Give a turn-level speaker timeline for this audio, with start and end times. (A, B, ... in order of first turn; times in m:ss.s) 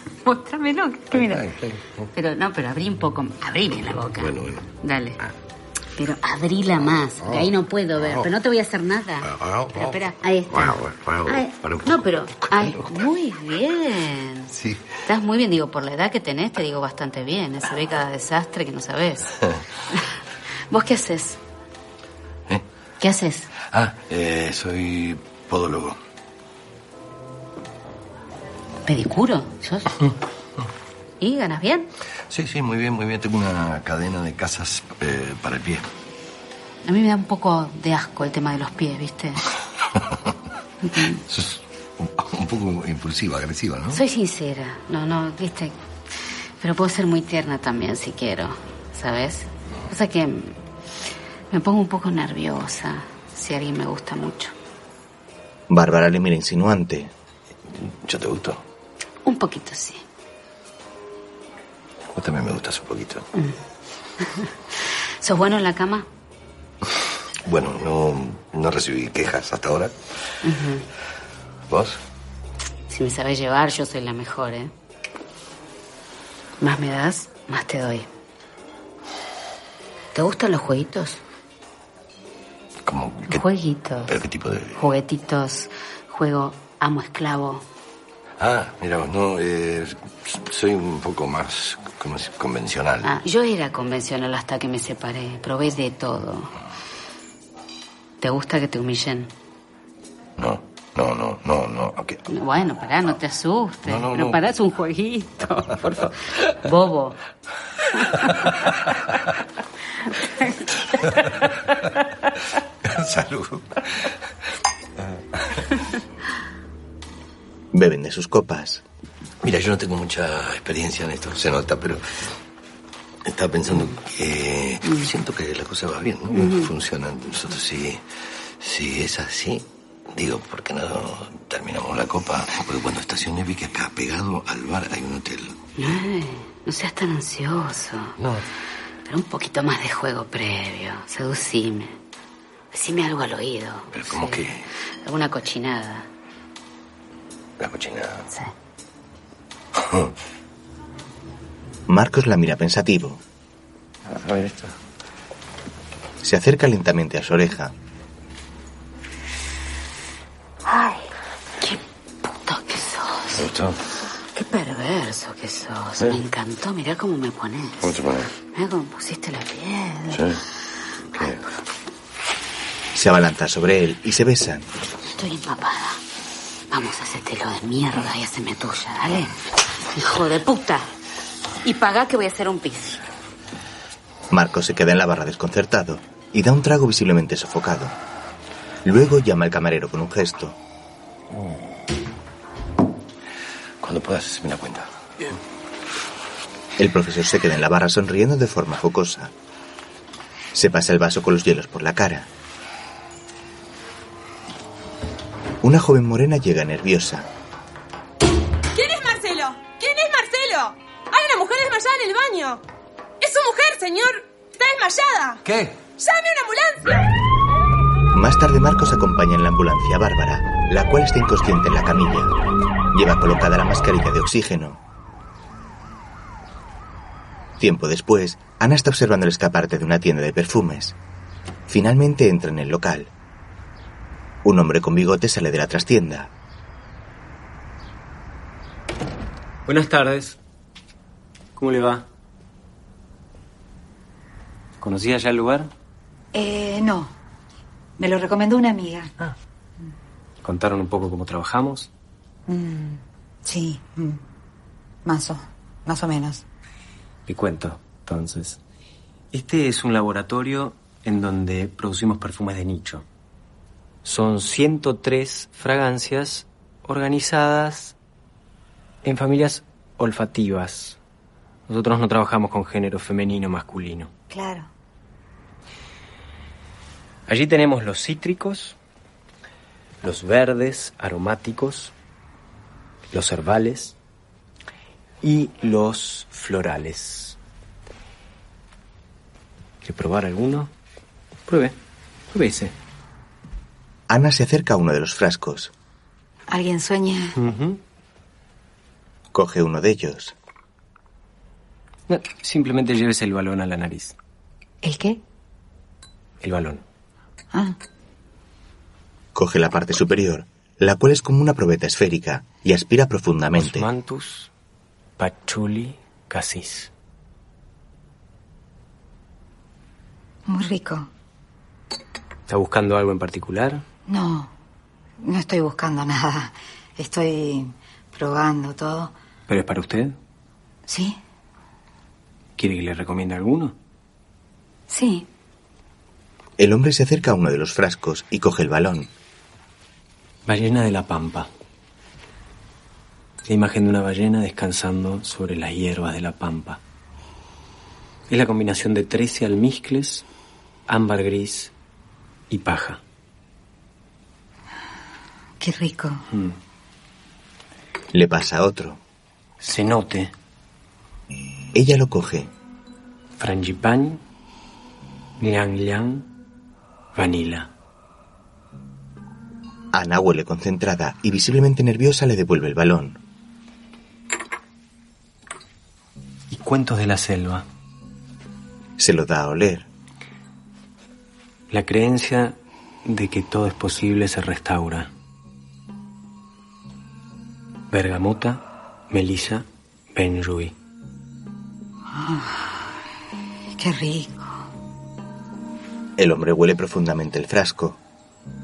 0:00.2-0:01.5 A
0:01.1-0:02.1 B
0:02.1-0:05.2 A
0:03.9-0:04.7 B
0:06.0-0:14.5 A
0:07.2-0:07.5 B
0:08.0-0:08.3 B
0:09.3-0:10.0 B
0:10.5-0:13.0 B
0:14.5-0:15.0 B
0:15.0-0:19.3 A
0:20.7-0:21.4 A
0:23.0-0:23.5 A
0:23.6-0:26.0 B
0:28.8-0:29.9 A
0:31.2-0:31.9 A
0:32.3-0:35.8 B
0:36.8-0:39.4 A
0:40.8-0:41.2 A
0:41.1-0:44.0 B
0:43.9-0:45.7 A
0:46.6-0:50.6 A
0:51.5-0:54.5 A
0:55.7-0:57.1 C
0:57.7-0:58.6 B
0:59.2-1:00.0 A
1:02.1-1:03.3 B
1:04.2-1:06.0 A
1:07.4-1:10.0 B
1:10.4-1:10.8 A
1:11.7-1:12.0 B
1:12.9-1:14.7 A
1:16.6-1:18.1 A
1:20.1-1:21.2 A
1:22.8-1:23.4 B
1:23.3-1:24.1 A
1:24.0-1:24.8 B
1:24.8-1:27.6 A
1:28.4-1:33.1 B
1:33.0-1:36.5 A
1:38.2-1:39.3 A
1:40.4-1:42.2 B
1:42.3-1:47.2 A
1:43.8-1:44.4 B
1:52.8-1:54.1 B
1:57.7-1:58.8 C
1:59.4-2:02.3 B
2:03.2-2:08.0 B
2:06.3-2:06.7 A
2:08.6-2:15.6 B
2:15.8-2:18.1 A
2:18.2-2:18.4 B
2:19.0-2:21.9 A
2:22.7-2:24.4 A
2:23.9-2:24.7 B
2:25.0-2:26.1 A
2:27.6-2:28.2 B
2:29.7-2:30.1 B
2:31.9-2:33.2 C
2:34.0-2:34.7 B
2:36.2-2:37.7 C
2:40.6-2:41.0 A
2:41.6-2:43.4 A
2:43.4-2:43.8 B
2:44.3-2:47.9 A
2:47.8-2:48.3 B
2:48.5-2:50.2 A
2:50.1-2:50.4 B
2:51.1-2:51.4 B
2:52.9-2:54.7 C
2:55.1-2:56.0 A
2:56.7-2:59.3 A
2:59.9-3:00.9 A
3:01.6-3:03.0 A
3:04.3-3:07.9 C
3:08.8-3:10.6 C
3:13.8-3:15.4 B
3:16.8-3:19.3 C
3:20.5-3:22.3 C
3:25.6-3:27.3 C
3:28.7-3:32.6 D
3:33.2-3:35.4 D
3:35.4-3:35.7 B
3:36.0-3:37.1 D
3:38.1-3:42.3 C
3:42.9-3:44.8 C
3:47.6-3:50.9 C
3:51.7-3:53.1 C
3:54.4-3:56.3 C
3:59.6-4:00.4 E
4:01.6-4:02.0 E
4:04.8-4:05.7 E
4:06.3-4:07.1 F
4:08.0-4:09.1 F
4:10.4-4:11.9 E
4:12.5-4:14.2 F
4:15.0-4:16.4 F
4:17.2-4:18.6 E
4:19.3-4:23.0 E
4:24.0-4:27.9 E
4:29.0-4:31.0 E
4:31.7-4:34.1 E
4:34.3-4:34.7 F
4:37.3-4:38.8 E
4:40.0-4:41.9 E
4:43.1-4:44.0 E
4:45.2-4:47.4 E
4:49.8-4:50.7 E
4:51.5-4:51.8 E
4:52.3-4:52.7 E
4:54.1-4:55.7 C
4:56.5-4:57.4 F
4:57.4-4:57.8 E
4:59.3-5:00.3 C
5:02.1-5:04.2 E
5:04.8-5:05.2 F
5:06.4-5:06.8 E
5:09.3-5:13.9 C
5:13.6-5:14.5 E
5:15.2-5:16.9 E
5:20.5-5:21.1 F
5:22.5-5:23.8 E
5:24.1-5:24.5 F
5:25.2-5:29.1 F
5:29.5-5:30.2 E
5:30.9-5:31.2 F
5:32.6-5:33.7 E
5:34.9-5:35.2 F
5:36.6-5:39.1 C
5:40.4-5:41.5 E
5:43.4-5:46.8 E
5:48.3-5:50.2 E
5:50.9-5:51.7 E
5:52.5-5:53.0 E
5:55.6-5:56.2 F
5:56.3-5:56.6 E
5:58.1-5:59.0 C
5:59.6-6:00.3 E
6:01.7-6:02.5 C
6:03.4-6:04.2 E
6:05.4-6:06.3 E
6:07.1-6:07.7 E
6:09.9-6:13.2 C
6:16.5-6:17.6 E
6:19.0-6:19.9 C
6:21.7-6:25.1 E
6:27.9-6:30.7 E
6:32.1-6:32.7 F
6:33.8-6:34.5 F
6:36.2-6:38.0 C